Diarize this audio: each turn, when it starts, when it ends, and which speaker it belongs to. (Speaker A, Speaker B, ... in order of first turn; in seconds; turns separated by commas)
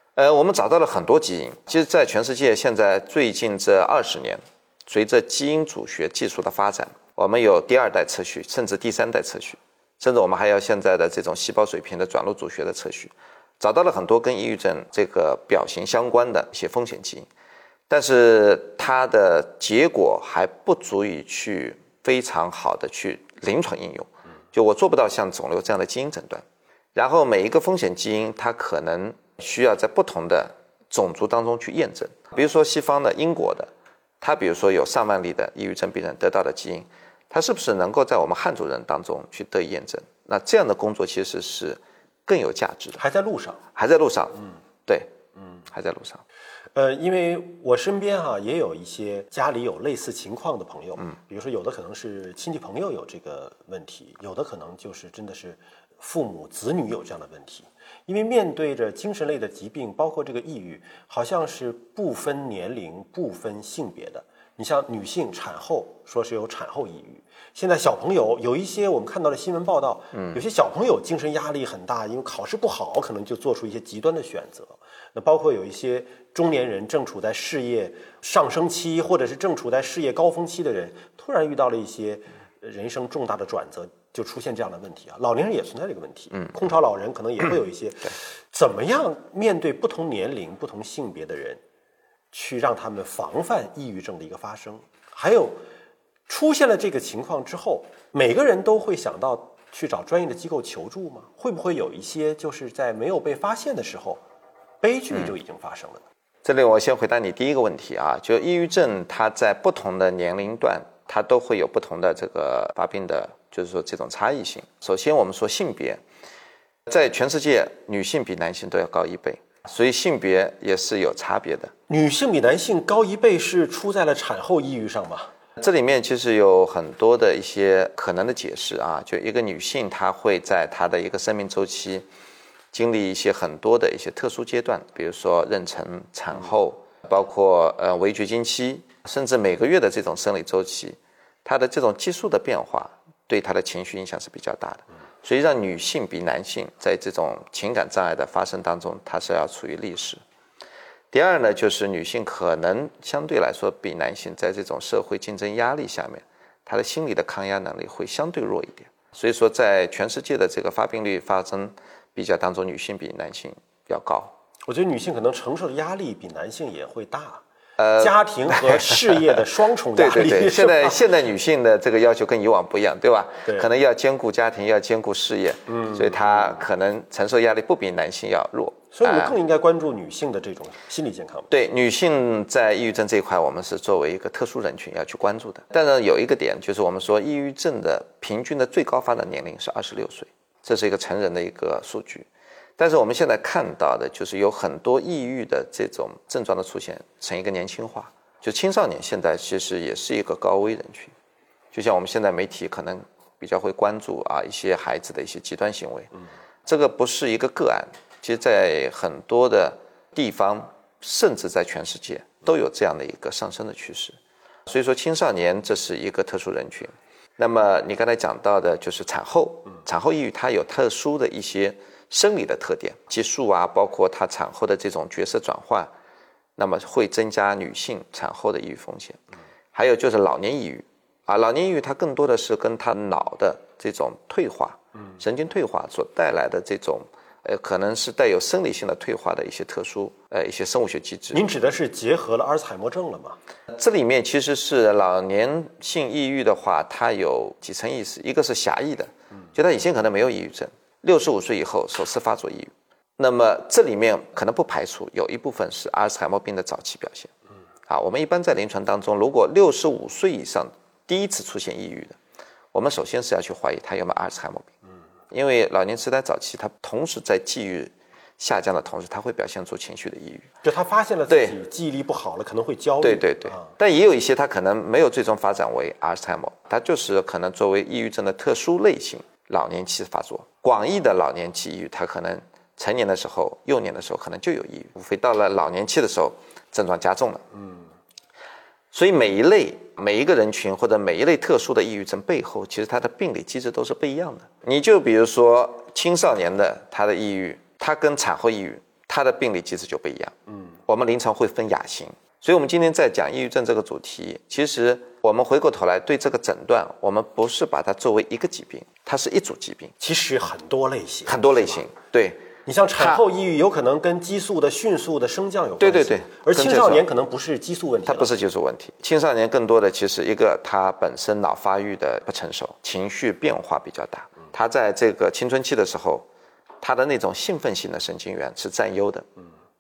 Speaker A: 0.1-17.3, Speaker A: 17.9-26.4, Speaker A: 26.9-33.7, Speaker A: 34.2-43.0, Speaker B: 42.9-43.6, Speaker A: 43.7-45.1, Speaker A: 45.7-46.2, Speaker B: 46.7-91.6, Speaker A: 70.1-70.4, Speaker B: 92.3-95.6, Speaker B: 96.3-104.2, Speaker B: 104.8-106.0, Speaker A: 106.4-116.0, Speaker A: 116.9-121.7, Speaker B: 121.9-125.3, Speaker A: 125.6-132.1, Speaker A: 132.7-150.2, Speaker A: 151.1-164.3, Speaker B: 164.7-167.4, Speaker A: 167.8-169.4, Speaker B: 168.0-171.0, Speaker A: 169.9-179.3, Speaker B: 175.7-176.6, Speaker B: 178.9-181.5, Speaker A: 181.5-192.3, Speaker A: 192.8-201.1, Speaker A: 201.7-206.1, Speaker A: 206.7-225.9, Speaker A: 226.6-229.2, Speaker A: 229.7-241.4, Speaker B: 241.3-243.4, Speaker A: 243.7-257.3, Speaker A: 257.9-262.2, Speaker A: 262.7-264.7, Speaker A: 265.3-270.5, Speaker B: 270.6-273.7, Speaker A: 271.3-271.6, Speaker A: 273.0-287.4, Speaker A: 288.9-300.3, Speaker A: 300.9-309.9, Speaker B: 310.0-311.9, Speaker A: 311.2-312.4, Speaker B: 312.6-318.3, Speaker A: 315.8-317.0, Speaker A: 318.0-326.3, Speaker A: 326.8-329.3